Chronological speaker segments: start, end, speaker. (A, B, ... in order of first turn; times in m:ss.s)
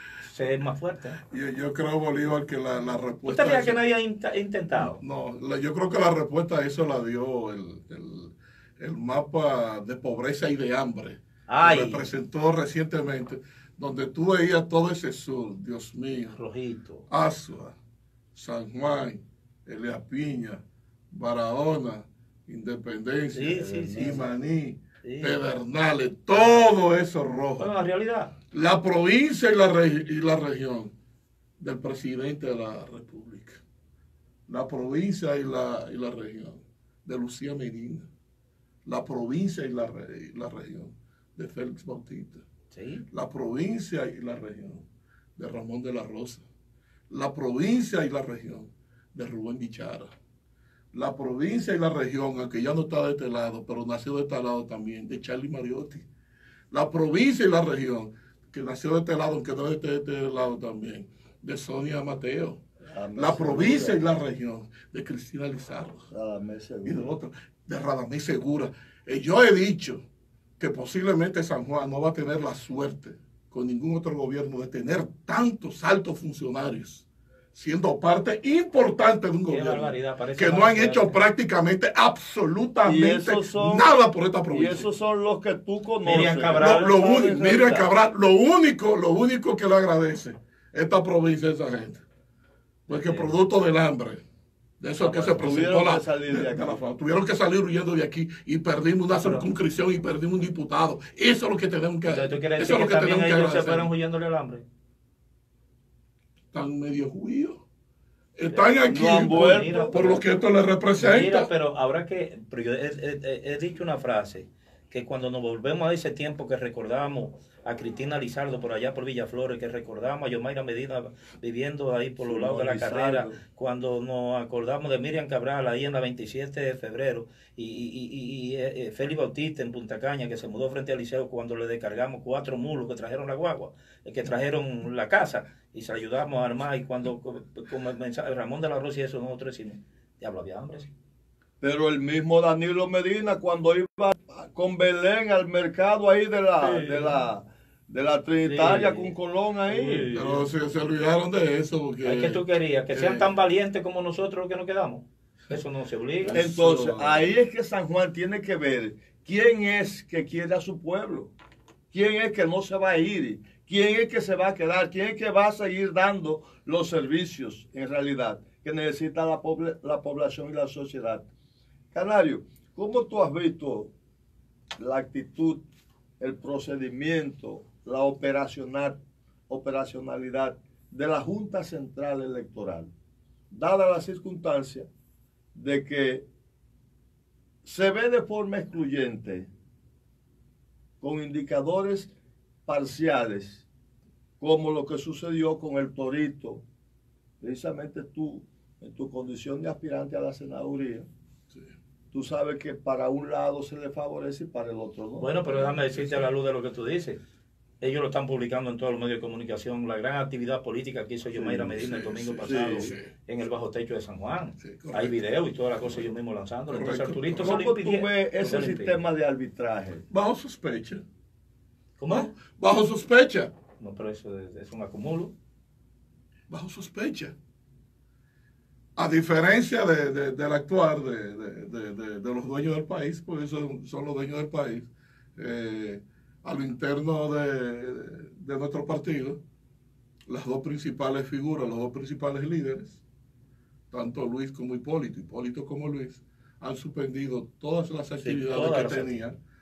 0:00.2-0:01.2 A
0:01.3-0:03.8 B
0:03.2-0:05.0 A
0:04.8-0:16.4 B
0:11.5-0:12.0 A
0:16.2-0:17.1 A
0:17.1-0:17.7 B
0:18.3-0:27.7 B
0:23.3-0:24.3 A
0:25.0-0:25.4 A
0:26.3-0:26.6 A
0:27.6-0:28.3 A
0:28.5-0:30.9 B
0:31.6-0:33.6 B
0:34.5-0:38.1 B
0:38.8-0:42.4 B
0:42.7-0:43.0 A
0:43.1-0:44.8 B
0:45.4-0:46.4 B
0:47.1-0:50.1 B
0:50.9-0:56.0 B
0:56.7-1:02.6 B
1:02.9-1:04.0 C
1:03.2-1:06.1 B
1:06.1-1:07.0 C
1:06.8-1:10.0 B
1:10.6-1:24.8 B
1:19.5-1:21.2 A
1:22.8-1:23.9 C
1:24.5-1:27.9 C
1:26.0-1:27.0 A
1:26.6-1:32.0 B
1:32.9-1:34.2 B
1:32.9-1:33.3 A
1:34.8-1:43.9 B
1:35.0-1:35.7 A
1:35.3-1:36.8 C
1:39.1-1:39.4 A
1:42.0-1:44.6 A
1:46.5-1:47.6 B
1:48.4-1:51.5 B
1:48.5-1:50.2 A
1:48.9-1:50.0 C
1:51.0-2:20.9 A
2:02.2-2:03.4 C
2:21.6-2:30.1 C
2:26.6-2:27.2 A
2:28.4-2:29.1 A
2:29.7-2:30.5 A
2:30.1-2:32.4 B
2:32.0-2:36.4 A
2:32.9-2:33.3 B
2:36.2-2:37.3 B
2:36.3-2:41.3 C
2:41.9-2:51.3 C
2:51.9-2:53.9 C
2:54.8-2:55.6 C
2:56.2-3:02.9 C
3:03.5-3:04.9 C
3:05.5-3:06.3 C
3:07.6-3:09.5 C
3:11.0-3:12.1 C
3:12.6-3:13.6 C
3:14.4-3:16.6 C
3:17.4-3:21.1 C
3:22.1-3:25.4 C
3:25.2-3:27.2 A
3:25.5-3:26.3 B
3:27.8-3:39.0 A
3:31.3-3:33.1 B
3:32.4-3:32.9 C
3:34.6-3:35.2 B
3:35.8-3:36.0 B
3:36.7-3:37.6 B
3:37.4-3:40.0 C
3:40.1-3:41.0 B
3:42.0-3:42.3 A
3:42.1-3:43.5 B
3:43.8-3:45.3 A
3:46.5-3:47.3 B
3:49.0-3:59.4 B
4:00.3-4:03.0 B
4:03.9-4:09.4 B
4:08.2-4:09.2 A